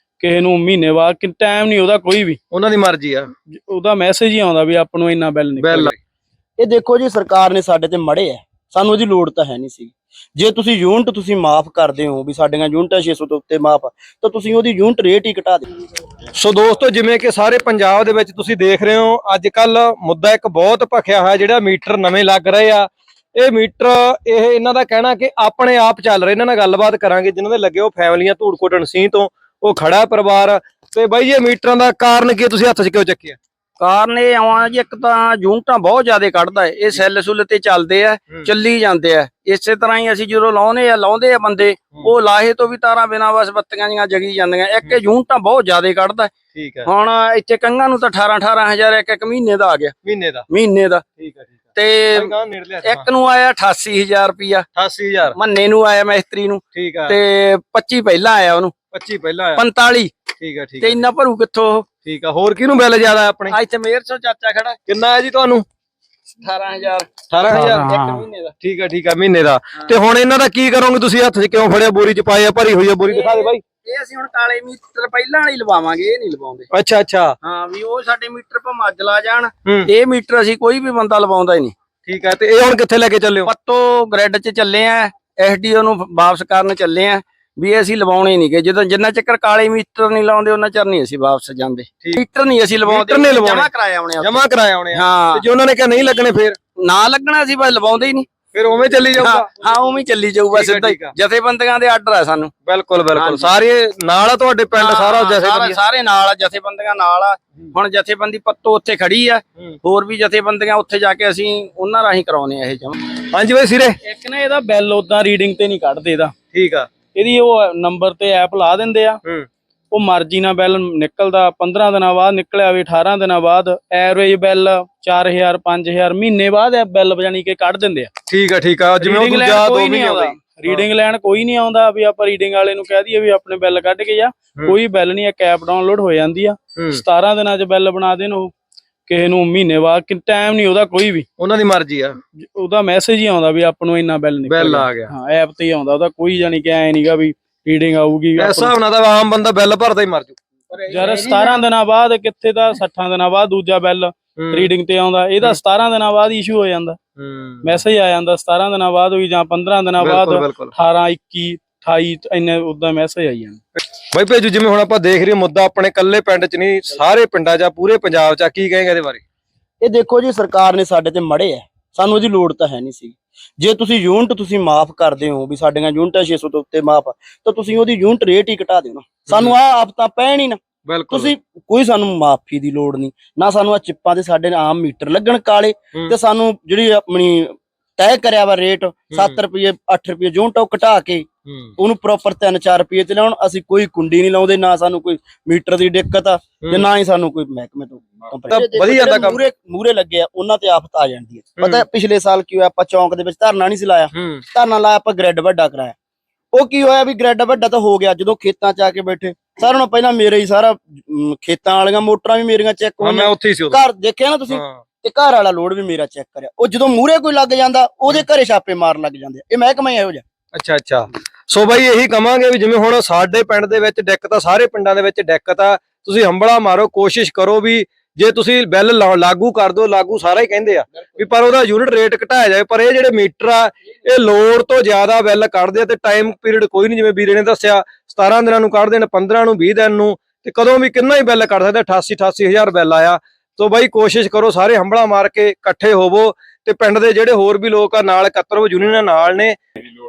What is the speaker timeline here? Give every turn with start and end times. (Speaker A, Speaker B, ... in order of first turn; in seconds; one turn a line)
Speaker A: 0.2-2.4
Speaker B: 2.5-3.3
Speaker A: 3.5-5.9
Speaker B: 5.6-6.0
Speaker C: 6.6-15.7
Speaker B: 16.3-33.4
Speaker D: 33.8-46.3
Speaker B: 46.5-46.9
Speaker D: 46.9-49.9
Speaker B: 50.0-50.5
Speaker D: 50.5-51.0
Speaker B: 51.2-51.6
Speaker D: 51.8-54.7
Speaker B: 52.1-53.1
Speaker B: 54.8-55.4
Speaker D: 55.4-58.7
Speaker B: 56.7-57.2
Speaker B: 58.9-59.6
Speaker D: 59.6-60.1
Speaker B: 60.4-61.0
Speaker D: 60.8-61.9
Speaker B: 62.0-63.6
Speaker D: 63.5-64.8
Speaker B: 64.9-65.7
Speaker D: 66.4-68.5
Speaker B: 67.3-67.8
Speaker A: 67.5-68.3
Speaker B: 68.6-73.6
Speaker D: 73.1-76.7
Speaker B: 76.7-77.3
Speaker D: 77.4-81.7
Speaker B: 79.7-79.9
Speaker B: 82.1-83.5
Speaker D: 83.5-94.4
Speaker B: 92.8-96.6
Speaker D: 94.9-95.4
Speaker D: 96.8-98.3
Speaker B: 98.5-99.8
Speaker D: 99.1-102.5
Speaker B: 100.5-101.1
Speaker B: 102.7-105.8
Speaker D: 103.2-103.5
Speaker D: 104.8-113.0
Speaker B: 113.2-114.0
Speaker A: 114.0-116.3
Speaker B: 116.5-116.9
Speaker A: 117.2-119.2
Speaker A: 119.9-128.1
Speaker B: 128.3-130.9
Speaker A: 129.0-138.5
Speaker B: 136.8-137.0
Speaker A: 139.1-141.3
Speaker B: 141.4-142.2
Speaker A: 142.4-148.7
Speaker B: 144.5-145.1
Speaker B: 148.4-150.4
Speaker D: 150.7-151.6
Speaker A: 150.9-157.0
Speaker B: 154.4-154.7
Speaker B: 157.2-157.8
Speaker A: 157.6-163.6
Speaker B: 160.0-160.7
Speaker B: 163.8-169.2
Speaker C: 169.8-205.9
Speaker B: 179.3-179.6
Speaker B: 180.8-181.3
Speaker B: 189.1-189.4
Speaker B: 191.5-191.7
Speaker B: 198.5-199.4
Speaker B: 204.1-204.4
Speaker C: 206.5-220.2
Speaker B: 213.0-213.8
Speaker B: 214.5-214.8
Speaker B: 220.5-249.6